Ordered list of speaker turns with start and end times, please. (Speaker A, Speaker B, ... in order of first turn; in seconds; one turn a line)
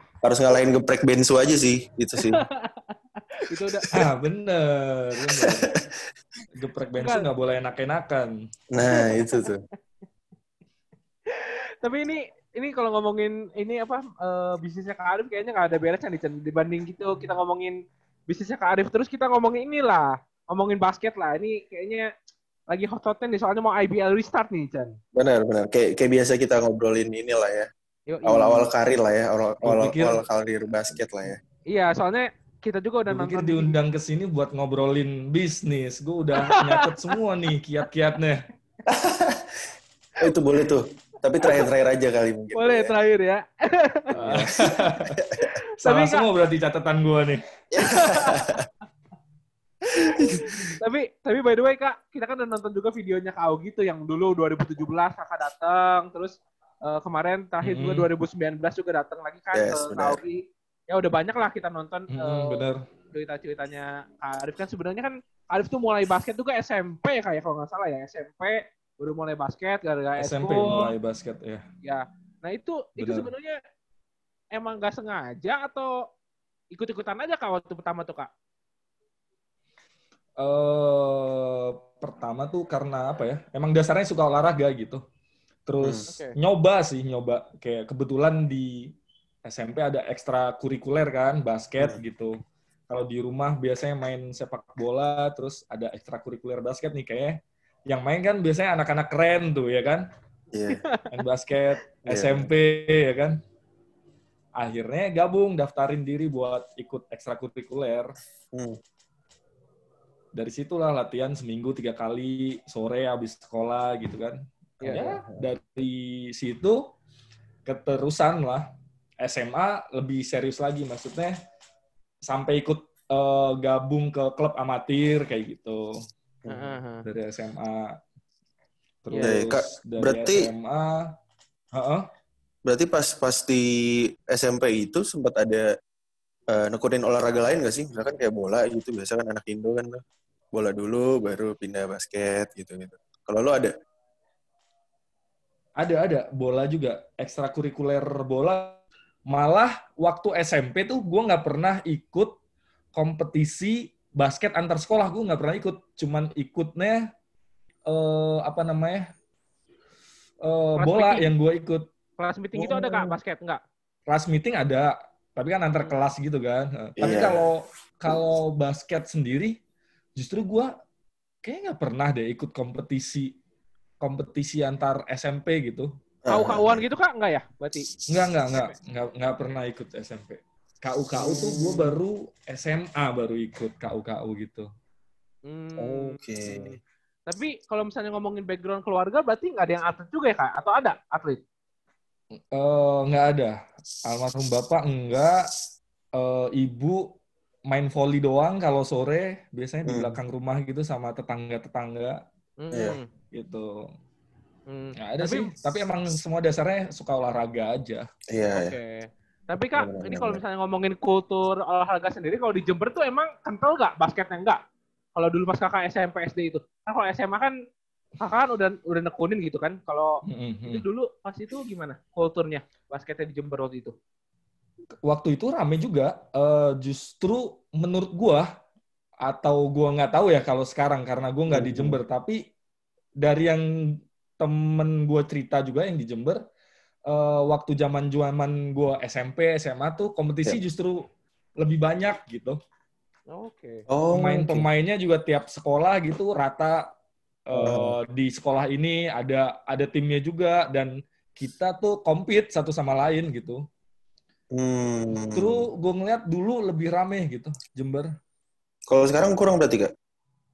Speaker A: 0.2-2.4
Speaker B: 2.2-3.9
Speaker C: 3.9-5.7
Speaker A: 5.3-5.9
Speaker C: 6.5-8.3
Speaker B: 7.0-7.3
Speaker A: 8.7-9.6
Speaker B: 8.8-9.5
Speaker B: 11.3-22.1
Speaker B: 22.7-25.0
Speaker A: 25.1-27.7
Speaker B: 28.1-28.7
Speaker A: 28.2-31.4
Speaker C: 29.6-30.2
Speaker B: 31.7-33.8
Speaker C: 33.1-38.4
Speaker B: 36.4-37.1
Speaker A: 38.9-39.7
Speaker A: 40.2-42.9
Speaker B: 41.4-41.7
Speaker B: 42.5-44.1
Speaker A: 44.1-45.5
Speaker C: 44.1-45.2
Speaker C: 45.8-47.4
Speaker B: 45.8-46.3
Speaker A: 47.7-48.6
Speaker B: 47.8-48.5
Speaker A: 49.9-50.8
Speaker B: 49.9-70.9
Speaker C: 57.6-58.1
Speaker A: 59.5-60.2
Speaker C: 62.1-62.8
Speaker C: 70.2-71.6
Speaker B: 71.8-73.6
Speaker C: 73.0-73.3
Speaker B: 74.5-76.0
Speaker B: 76.7-78.3
Speaker C: 80.4-85.0
Speaker C: 85.7-88.9
Speaker B: 86.1-86.3
Speaker C: 89.4-92.3
Speaker C: 92.9-100.0
Speaker A: 100.5-100.8
Speaker B: 100.7-101.1
Speaker C: 101.1-103.4
Speaker A: 102.1-102.5
Speaker C: 104.6-108.1
Speaker A: 108.5-108.8
Speaker C: 110.3-116.8
Speaker B: 114.8-115.1
Speaker A: 114.9-115.4
Speaker C: 117.6-118.7
Speaker C: 119.2-121.3
Speaker C: 122.2-126.0
Speaker A: 126.4-126.8
Speaker B: 126.5-127.0
Speaker C: 127.0-128.0
Speaker C: 129.0-131.1
Speaker B: 129.1-129.4
Speaker A: 129.2-130.5
Speaker C: 131.7-132.0
Speaker A: 132.7-135.7
Speaker A: 136.5-140.0
Speaker A: 140.5-143.7
Speaker C: 145.8-152.3
Speaker C: 152.9-157.0
Speaker C: 157.9-159.1
Speaker C: 160.4-161.8
Speaker B: 160.8-161.3
Speaker B: 162.2-163.6
Speaker A: 162.6-163.1
Speaker C: 164.1-169.6
Speaker A: 167.0-167.4
Speaker C: 170.2-170.7
Speaker C: 171.4-173.3
Speaker C: 174.0-175.9
Speaker A: 176.2-176.8
Speaker B: 176.3-177.9
Speaker C: 178.1-184.7
Speaker A: 181.2-181.9
Speaker B: 185.4-191.4
Speaker A: 185.8-186.7
Speaker C: 192.5-195.4
Speaker C: 196.2-197.1
Speaker C: 197.7-202.2
Speaker A: 199.9-200.2
Speaker B: 202.6-203.1
Speaker A: 202.7-203.0
Speaker C: 203.3-203.8
Speaker B: 204.7-205.5
Speaker C: 205.0-208.1
Speaker A: 208.3-208.8
Speaker B: 208.5-214.6
Speaker A: 209.8-210.4
Speaker B: 215.2-217.5
Speaker B: 218.2-223.9
Speaker C: 220.2-220.8
Speaker C: 225.0-228.4
Speaker C: 229.2-232.4
Speaker A: 231.5-232.0
Speaker C: 233.2-236.4
Speaker C: 237.1-241.0
Speaker C: 241.6-242.6
Speaker B: 243.3-243.8
Speaker A: 243.9-244.7
Speaker C: 244.1-246.9
Speaker C: 247.5-253.6
Speaker A: 247.5-247.9
Speaker A: 254.5-255.7
Speaker C: 255.1-258.1
Speaker A: 258.9-259.9